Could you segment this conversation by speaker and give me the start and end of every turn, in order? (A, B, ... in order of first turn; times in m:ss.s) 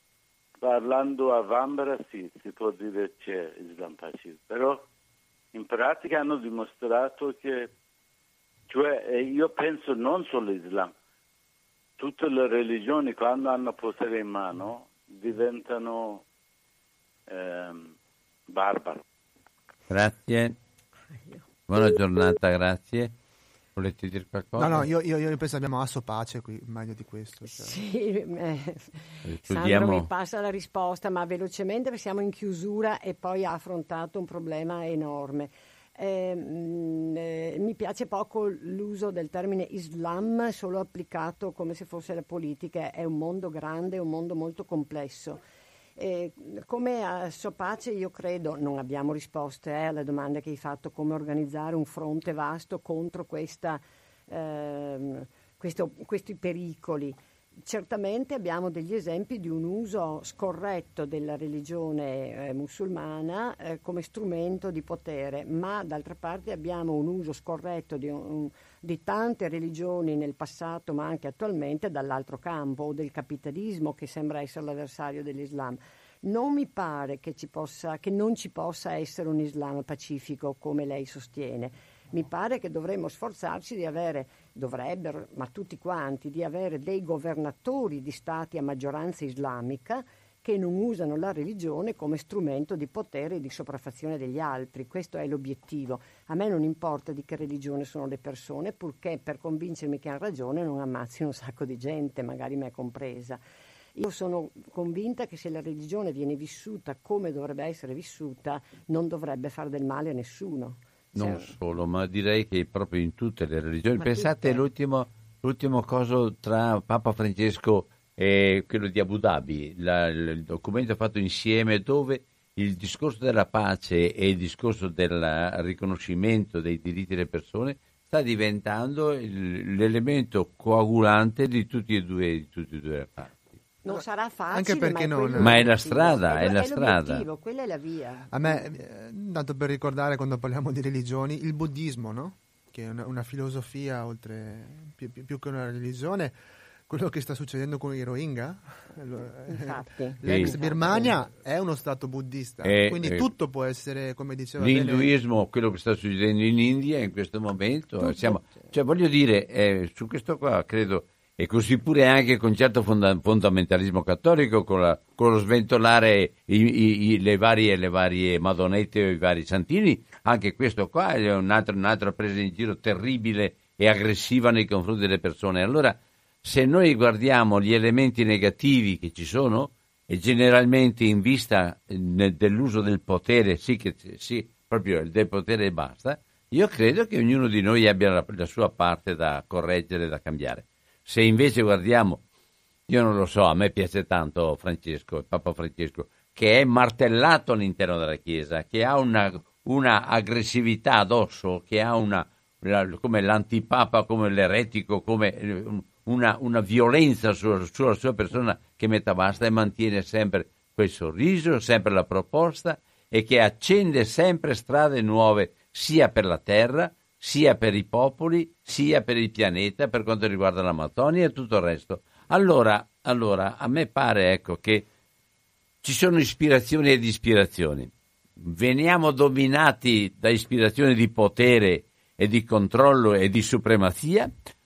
0:00.6-0:04.9 A
0:05.5-0:07.7 A
0:08.7-0:10.9 A
0:12.0-0:16.2 A
0:17.3-0:17.9 A
0:18.5-0:19.0 A
0:19.9-0:20.6 B
0:21.1-0:21.4 C
0:21.7-0:23.1 B
0:23.8-0:24.9 B
0:24.6-0:27.8 D
0:27.5-0:45.4 C
0:29.2-0:30.1 B
0:46.0-1:43.4 C
1:43.9-1:51.5 C
1:51.1-2:13.5 B
1:54.0-1:54.6 C
2:13.8-2:18.7 C
2:13.9-2:15.6 D
2:15.4-2:17.2 B
2:18.3-2:35.1 D
2:29.2-2:31.2 C
2:30.2-2:30.5 B
2:32.6-2:33.3 B
2:34.6-3:12.2 B
2:38.0-2:38.7 C
3:12.9-3:44.8 B
3:45.8-3:54.3 B